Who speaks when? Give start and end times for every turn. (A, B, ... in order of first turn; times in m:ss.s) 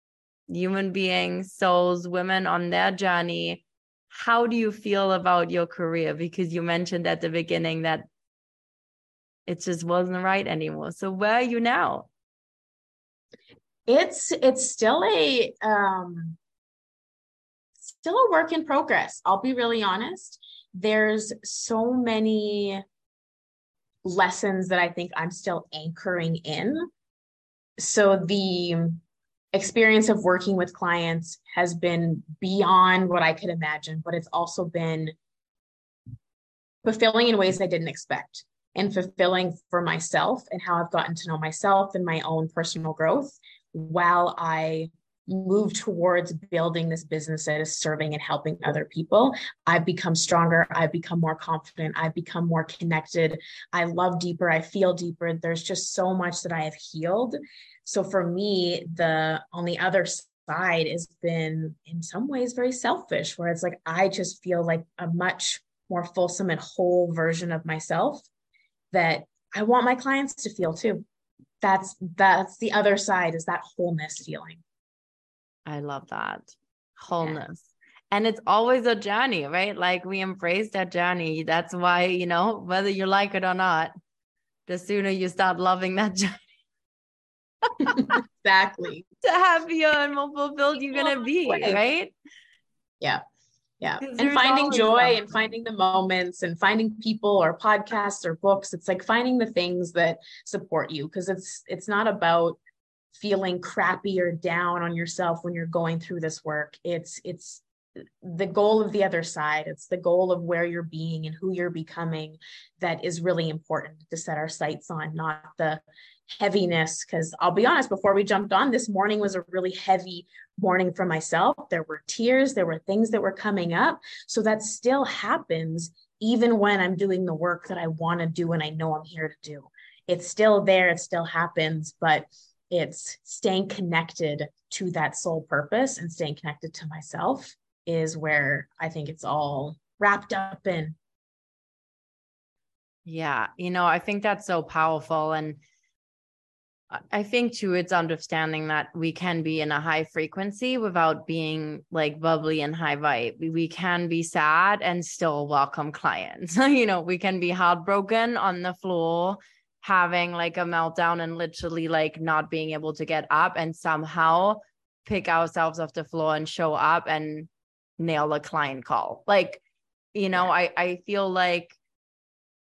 0:00.5-0:08.1 A
0:09.5-0:12.1 A
0:13.9-0:16.4 B
0:17.8-0:22.8 B
0:24.0-0:26.9 B
0:27.8-0:35.2 B
0:36.8-1:08.3 B
1:08.9-1:11.0 B
1:11.6-1:14.6 B
1:15.7-1:23.9 A
1:24.7-1:26.4 A
1:27.8-1:28.1 A
1:27.8-1:29.0 B
1:29.2-1:32.1 A
1:30.9-1:31.8 B
1:33.8-1:42.6 B
1:34.0-1:35.3 A
1:43.1-2:21.0 B
2:23.1-2:25.6 A
2:26.9-2:49.6 A
2:50.1-2:51.8 A